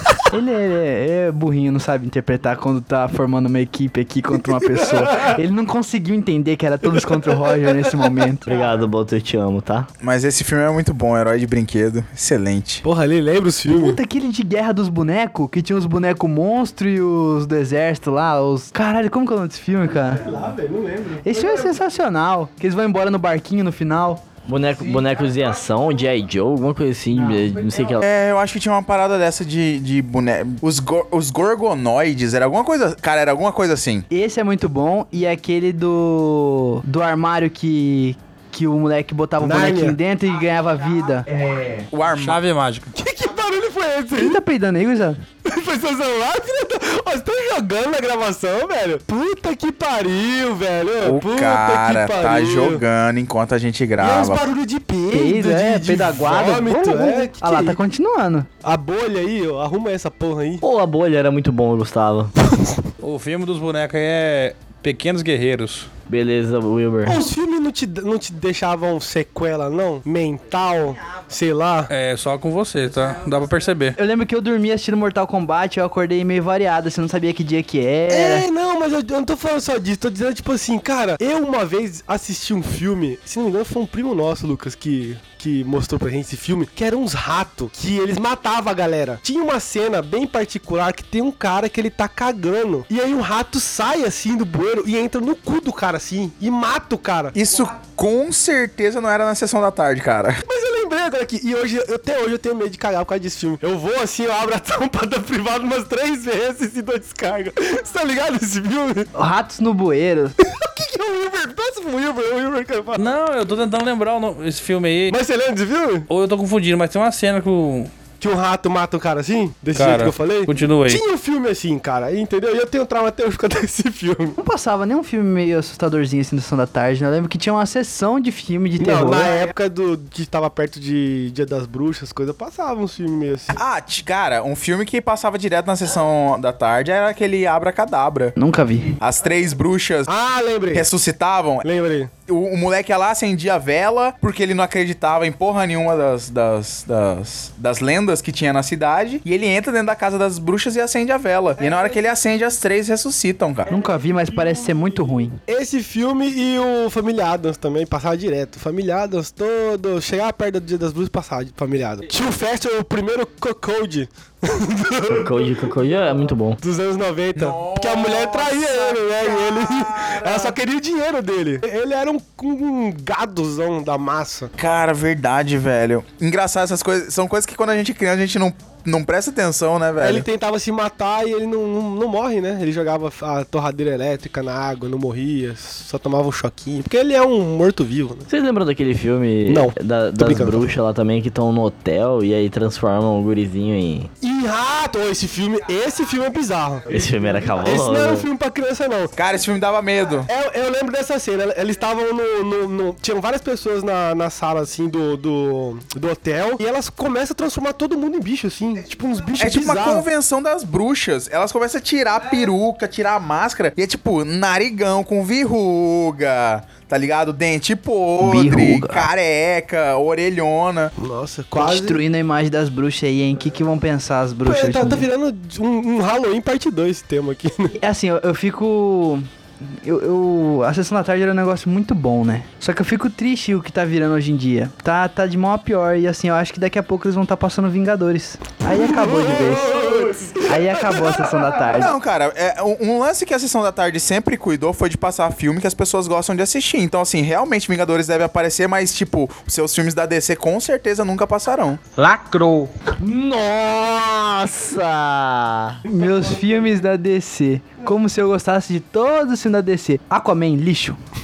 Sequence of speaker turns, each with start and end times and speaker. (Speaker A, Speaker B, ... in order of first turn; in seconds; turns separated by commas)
Speaker A: 0.3-8.5, Speaker B: 4.8-5.3, Speaker C: 8.5-9.9, Speaker D: 10.0-12.8, Speaker B: 12.8-14.0, Speaker A: 13.7-20.2, Speaker B: 20.1-21.7, Speaker A: 21.2-24.2, Speaker C: 24.5-28.1, Speaker A: 27.1-27.5, Speaker D: 28.0-34.1, Speaker A: 34.1-41.3, Speaker B: 39.4-40.0, Speaker D: 41.3-42.4, Speaker E: 42.1-43.0, Speaker B: 43.0-44.4, Speaker A: 44.1-45.2, Speaker B: 45.4-52.8, Speaker D: 51.0-54.5, Speaker B: 54.0-57.8, Speaker A: 55.1-58.5, Speaker B: 58.6-60.6, Speaker C: 60.6-62.3, Speaker E: 63.0-65.9, Speaker C: 66.1-67.2, Speaker B: 67.0-71.9, Speaker E: 71.9-74.0, Speaker A: 74.0-78.5, Speaker B: 78.1-97.3, Speaker D: 97.3-100.4, Speaker B: 100.5-109.1, Speaker A: 109.2-110.3, Speaker B: 110.4-113.1, Speaker E: 113.0-115.2, Speaker B: 115.1-116.1, Speaker E: 116.1-117.9, Speaker B: 118.2-124.4, Speaker E: 119.8-121.0, Speaker A: 124.4-129.3, Speaker B: 128.8-133.6, Speaker D: 133.5-138.3, Speaker A: 138.4-138.9, Speaker D: 139.0-140.1, Speaker B: 140.1-140.9, Speaker D: 140.7-141.7, Speaker B: 141.6-142.1, Speaker D: 142.3-153.7, Speaker A: 153.7-155.4, Speaker B: 155.5-165.5, Speaker C: 165.1-166.6, Speaker B: 166.6-174.5, Speaker D: 167.3-170.6, Speaker D: 174.6-180.3, Speaker B: 180.0-188.3, Speaker C: 188.3-194.1, Speaker B: 189.5-190.7, Speaker B: 194.2-199.1, Speaker C: 196.9-198.3, Speaker D: 199.2-200.3, Speaker B: 200.3-210.1, Speaker D: 209.4-220.9, Speaker A: 218.2-219.1, Speaker B: 221.0-222.0, Speaker A: 221.5-225.1, Speaker B: 224.4-227.8, Speaker A: 227.8-241.9, Speaker B: 238.7-241.2, Speaker D: 241.7-251.8, Speaker C: 252.9-255.8, Speaker A: 255.9-261.0